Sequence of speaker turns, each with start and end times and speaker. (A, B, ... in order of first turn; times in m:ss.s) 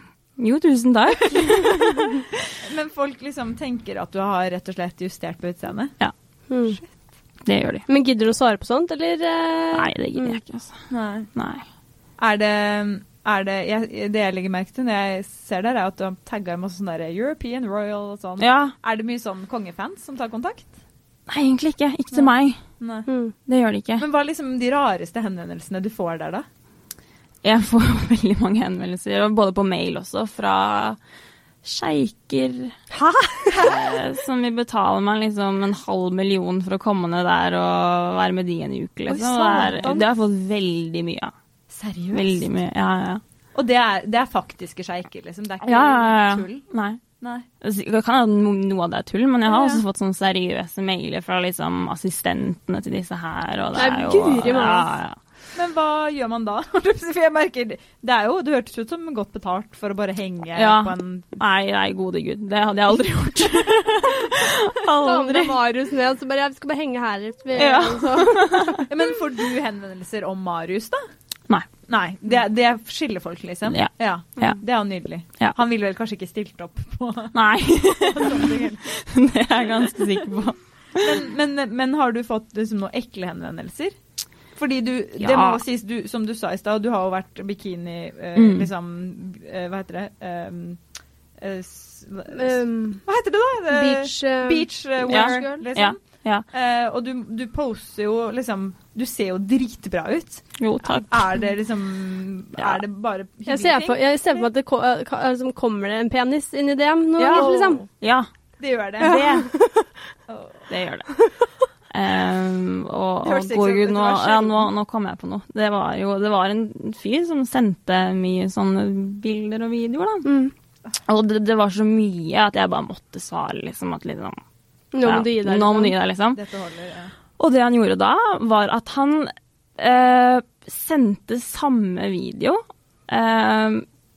0:00.4-0:02.3 A
0:01.2-0:01.7 B
0:02.5-0:05.9 B
0:06.5-0:06.8 C
0:07.4-0:07.8 A
0:07.9-0:10.4 C
0:09.7-0:10.8 A
0:10.9-0:11.3 B
0:11.3-0:11.6 A
0:12.2-0:20.7 B
0:18.4-0:18.7 A
0:21.3-0:22.6 A
0:22.1-0:23.1 B
0:23.1-0:23.3 C
0:23.5-0:24.0 A
0:24.0-0:26.4 B
0:27.4-0:31.0 A
0:31.6-0:32.8 A
0:33.0-0:33.5 C
0:33.4-0:34.0 B
0:33.5-0:41.3 A
0:39.1-0:40.1 B
0:41.7-0:42.5 B
0:42.1-0:43.2 A
0:43.5-0:46.6 B
0:45.6-0:47.0 A
0:47.2-0:47.5 B
0:47.6-0:55.2 A
0:49.4-0:49.8 B
0:53.7-0:54.9 C
0:55.5-1:01.3 B
1:00.5-1:05.6 A
1:05.0-1:08.8 C
1:07.5-1:08.8 A
1:08.9-1:11.0 B
1:11.8-1:18.8 B
1:13.7-1:14.6 A
1:17.3-1:21.0 A
1:21.0-1:23.9 B
1:24.5-1:30.8 B
1:25.2-1:25.6 A
1:28.3-1:28.7 A
1:31.4-1:44.4 B
1:32.3-1:33.0 C
1:33.7-1:35.6 C
1:35.1-1:36.4 A
1:40.6-1:41.2 A
1:43.5-1:47.8 C
1:47.2-1:48.3 A
1:47.2-1:47.6 B
1:48.6-1:49.3 B
1:49.0-1:49.5 A
1:49.0-1:49.9 C
1:50.3-1:50.7 B
1:50.7-1:51.1 A
1:51.9-2:00.3 A
1:53.2-1:54.7 B
2:00.2-2:00.5 C
2:01.0-2:04.4 A
2:04.9-2:05.9 C
2:05.0-2:06.4 A
2:06.3-2:07.1 B
2:07.4-2:13.8 A